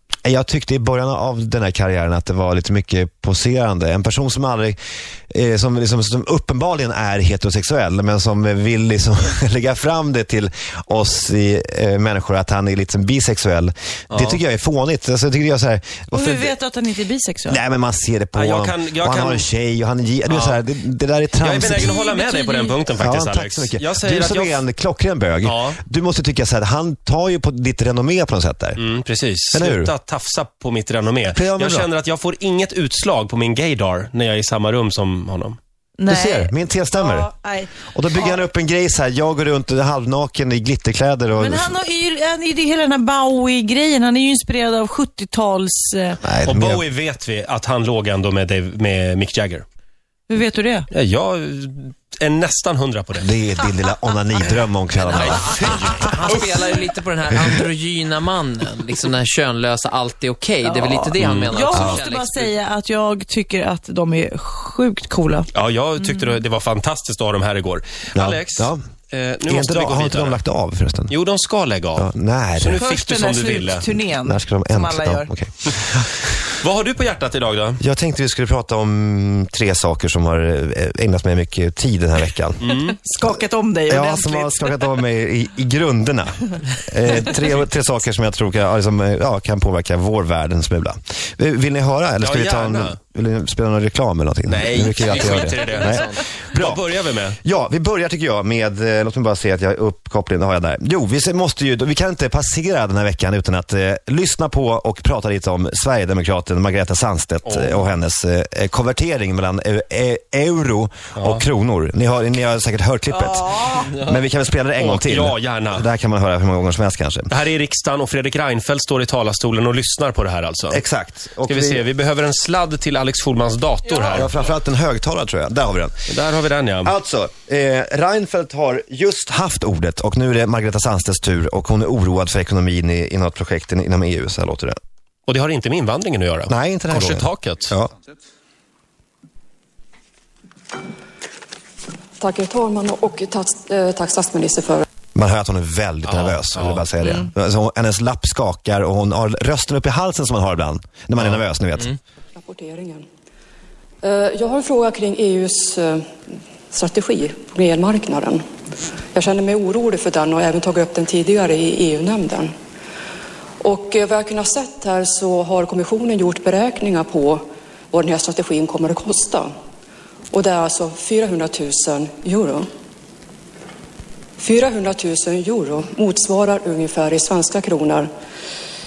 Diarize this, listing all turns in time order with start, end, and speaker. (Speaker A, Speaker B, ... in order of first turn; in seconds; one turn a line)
Speaker A: 0.2-4.8
Speaker A: 5.3-16.5
Speaker B: 14.1-14.4
Speaker C: 16.1-17.6
Speaker A: 17.5-21.9
Speaker B: 18.3-19.5
Speaker B: 20.3-20.6
Speaker B: 21.4-24.6
Speaker C: 21.7-22.8
Speaker A: 23.0-28.8
Speaker B: 25.4-25.8
Speaker B: 28.8-35.6
Speaker A: 29.5-29.9
Speaker A: 31.3-31.9
Speaker C: 36.0-38.4
Speaker A: 36.1-37.3
Speaker A: 37.8-41.8
Speaker C: 41.4-46.2
Speaker A: 46.2-46.8
Speaker B: 46.5-49.6
Speaker C: 50.3-50.9
Speaker B: 50.9-53.3
Speaker A: 53.2-55.7
Speaker D: 55.0-62.5
Speaker B: 55.1-56.4
Speaker C: 60.6-66.4
Speaker B: 61.2-61.5
Speaker A: 61.7-62.0
Speaker B: 65.5-70.4
Speaker A: 68.1-68.8
Speaker A: 69.5-71.1
Speaker B: 71.1-73.9
Speaker A: 72.0-72.8
Speaker C: 72.8-75.3
Speaker A: 74.2-76.4
Speaker B: 76.6-77.8
Speaker A: 77.8-82.6
Speaker B: 82.6-83.0
Speaker C: 83.0-84.7
Speaker A: 83.9-96.8
Speaker B: 92.2-93.0
Speaker B: 94.5-97.4
Speaker D: 95.1-96.2
Speaker A: 97.4-117.3
Speaker B: 107.4-107.9
Speaker B: 111.2-111.5
Speaker D: 113.7-114.1
Speaker B: 114.8-115.9
Speaker B: 117.3-120.8
Speaker A: 120.7-121.8
Speaker B: 121.5-124.3
Speaker A: 124.1-125.9
Speaker B: 126.1-126.9
Speaker A: 126.8-134.8
Speaker B: 135.3-137.7
Speaker A: 136.5-137.9
Speaker E: 142.2-144.8
Speaker A: 145.1-151.9
Speaker B: 146.0-146.8
Speaker E: 152.3-153.1
Speaker E: 154.0-156.1
Speaker E: 156.7-158.4
Speaker E: 159.1-162.5
Speaker E: 163.6-169.5
Speaker E: 170.3-172.7
Speaker E: 174.4-178.1